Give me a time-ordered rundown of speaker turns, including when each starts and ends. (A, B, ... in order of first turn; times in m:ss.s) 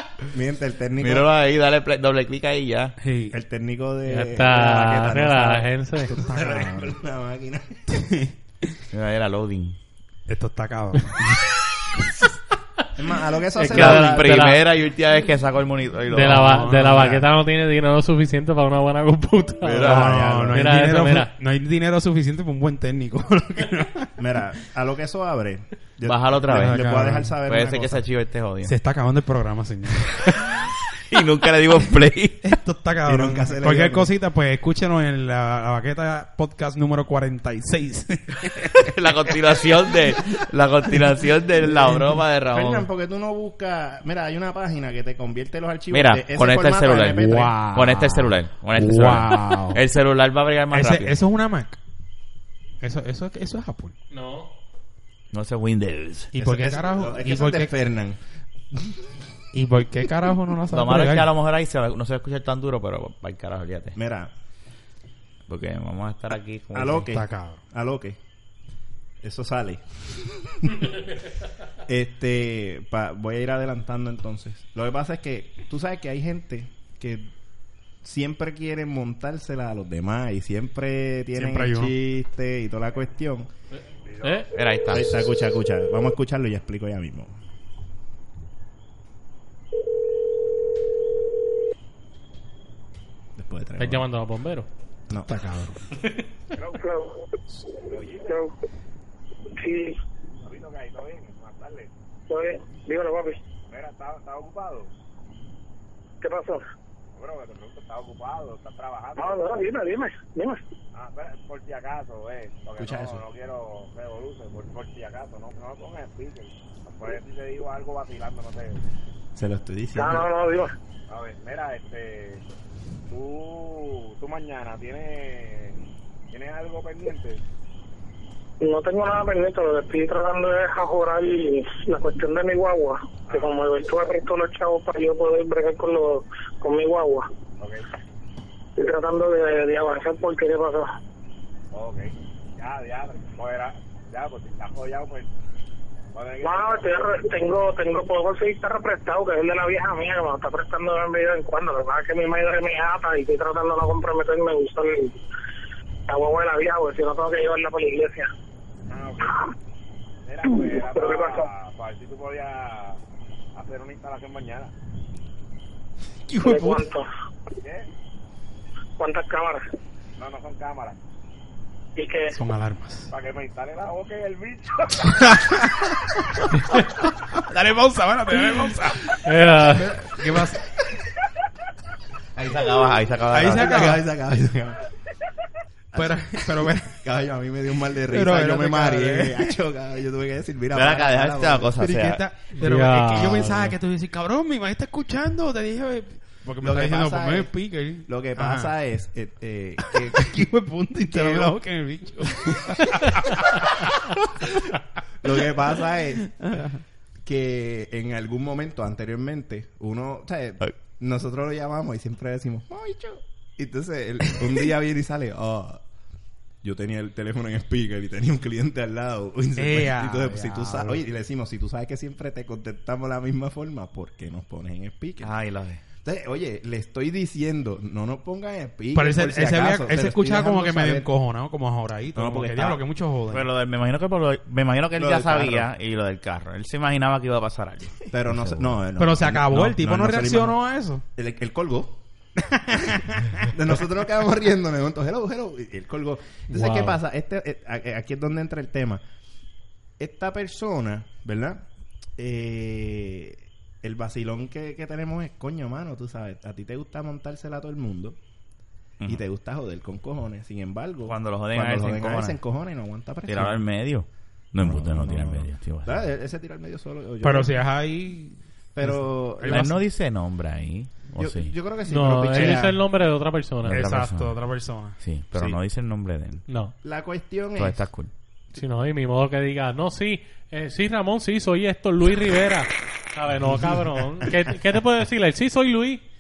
0:00.3-0:01.3 A
0:01.0-0:03.0 B
0:03.0-0:03.4 C
0:03.3-0:08.0 A
0:04.1-0:06.1 D
0:06.1-0:06.9 C
0:07.9-0:08.7 C
0:08.9-0:09.8 B
0:10.3-0:11.4 C
0:13.0-0:14.5 A
0:13.6-0:14.6 D
0:13.7-0:16.6 B
0:16.1-0:21.3 D
0:16.3-0:17.3 C
0:19.6-0:20.3 B
0:19.8-0:20.6 A
0:19.8-0:24.1 C
0:24.2-0:28.0 A
0:26.0-0:26.8 B
0:26.5-0:27.4 C
0:27.5-0:28.7 B
0:28.6-0:30.4 C
0:30.1-0:32.5 B
0:32.4-0:38.9 C
0:33.0-0:34.1 A
0:38.8-0:42.9 B
0:42.5-0:47.6 A
0:45.9-0:51.2 B
0:47.2-0:49.8 C
0:50.7-0:51.8 C
0:52.8-0:54.0 C
0:54.1-0:54.5 D
0:55.3-0:56.3 B
0:56.3-0:57.7 C
0:56.4-0:58.2 A
0:58.7-0:59.0 A
0:59.5-1:01.3 C
1:00.7-1:04.0 B
1:04.0-1:04.3 A
1:05.5-1:07.0 B
1:06.7-1:08.2 A
1:07.1-1:07.6 C
1:09.2-1:10.9 A
1:11.9-1:17.3 A
1:18.0-1:23.5 A
1:21.4-1:21.9 C
1:24.2-1:24.5 D
1:24.5-1:25.3 B
1:24.9-1:27.3 A
1:33.4-1:34.0 A
1:33.8-1:34.7 D
1:35.3-1:35.8 C
1:36.5-1:37.0 E
1:36.8-1:37.2 F
1:37.9-1:38.4 E
1:37.9-1:38.5 F
1:39.6-1:40.0 F
1:40.4-1:41.9 E
1:42.3-1:43.4 F
1:43.7-1:44.9 E
1:46.2-1:46.6 F
1:47.1-1:49.7 E
1:49.2-1:50.6 F
1:50.9-1:58.8 E
1:52.8-1:53.2 A
1:59.4-2:00.3 A
2:00.0-2:00.7 F
2:01.1-2:02.4 E
2:03.1-2:05.8 E
2:06.3-2:07.4 E
2:08.6-2:17.3 F
2:13.3-2:13.6 E
2:18.8-2:20.9 F
2:21.7-2:25.3 E
2:26.1-2:27.1 E
2:26.4-2:35.1 F
2:36.1-2:38.3 F
2:38.9-2:39.5 E
2:40.2-2:43.0 E
2:40.4-2:41.5 F
2:43.6-2:44.7 E
2:46.3-2:46.8 C
2:46.4-2:47.1 F
2:47.6-2:47.9 E
2:49.0-2:49.6 F
2:50.2-2:51.0 E
2:52.0-2:52.4 F
2:52.3-2:53.1 C
2:53.1-2:55.3 E
2:55.1-3:00.6 C
2:59.2-2:59.9 D
3:02.4-3:03.8 B
3:03.3-3:04.0 C
3:03.5-3:04.8 A
3:05.9-3:11.7 A
3:06.0-3:07.0 C
3:08.1-3:09.5 C
3:10.7-3:12.2 B
3:11.8-3:18.7 C
3:12.6-3:13.7 D
3:16.6-3:17.5 A
3:18.1-3:20.5 A
3:19.8-3:24.1 C
3:21.1-3:21.6 A
3:22.5-3:22.8 A
3:25.2-3:26.6 A
3:27.2-3:35.8 A
3:36.6-3:45.3 A
3:39.6-3:41.0 C
3:45.2-3:45.8 B
3:46.0-3:51.1 A
3:49.0-3:53.5 C
3:52.2-3:52.8 A
3:53.3-3:58.7 B
3:55.0-3:55.7 A
3:58.1-4:00.6 A
3:59.0-4:01.0 C
4:01.2-4:02.0 A
4:02.5-4:03.5 C
4:02.8-4:09.0 A
4:06.5-4:07.0 D
4:10.0-4:11.6 A
4:12.2-4:18.2 A
4:19.0-4:23.6 A
4:21.0-4:22.4 B
4:23.3-4:26.0 B
4:24.6-4:27.5 A
4:27.2-4:29.8 C
4:28.8-4:29.7 A
4:29.4-4:31.5 B
4:31.2-4:32.8 A
4:31.9-4:33.8 D
4:33.7-4:34.4 B
4:33.7-4:35.0 C
4:35.0-4:36.4 B
4:36.5-4:36.7 D
4:36.8-4:37.8 A
4:37.6-4:38.1 B
4:38.6-4:46.0 D